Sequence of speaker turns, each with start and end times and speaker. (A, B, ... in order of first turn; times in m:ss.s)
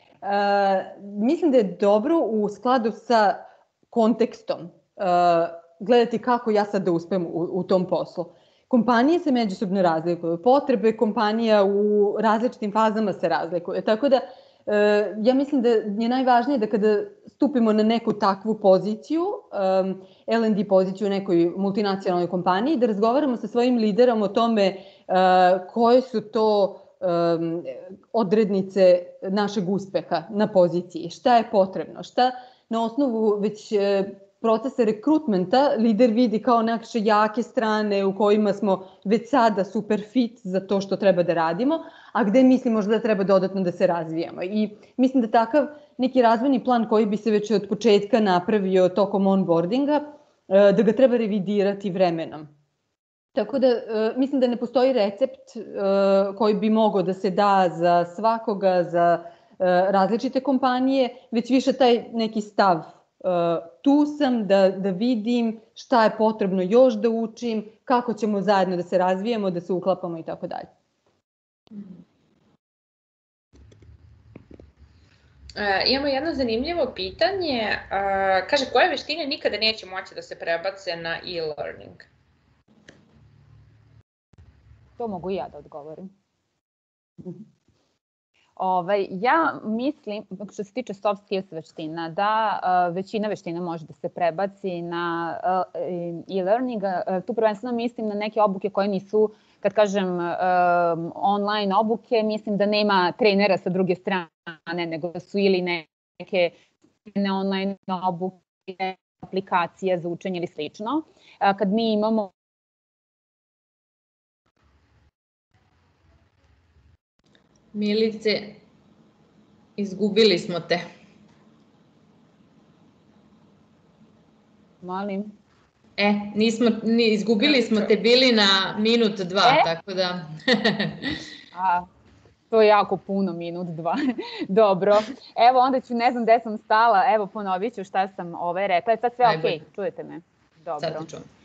0:00.2-0:52.5 A
0:53.4-1:10.7 A
1:15.6-1:22.1 B
1:25.0-1:26.1 C
1:28.6-1:46.6 C
1:47.1-1:52.3 C
1:57.7-1:58.6 D
1:59.8-2:00.9 D
2:04.8-2:05.4 C
2:06.0-2:11.2 D
2:09.4-2:09.7 C
2:11.5-2:11.9 C
2:12.5-2:21.1 C
2:19.2-2:19.6 D
2:20.8-2:21.3 D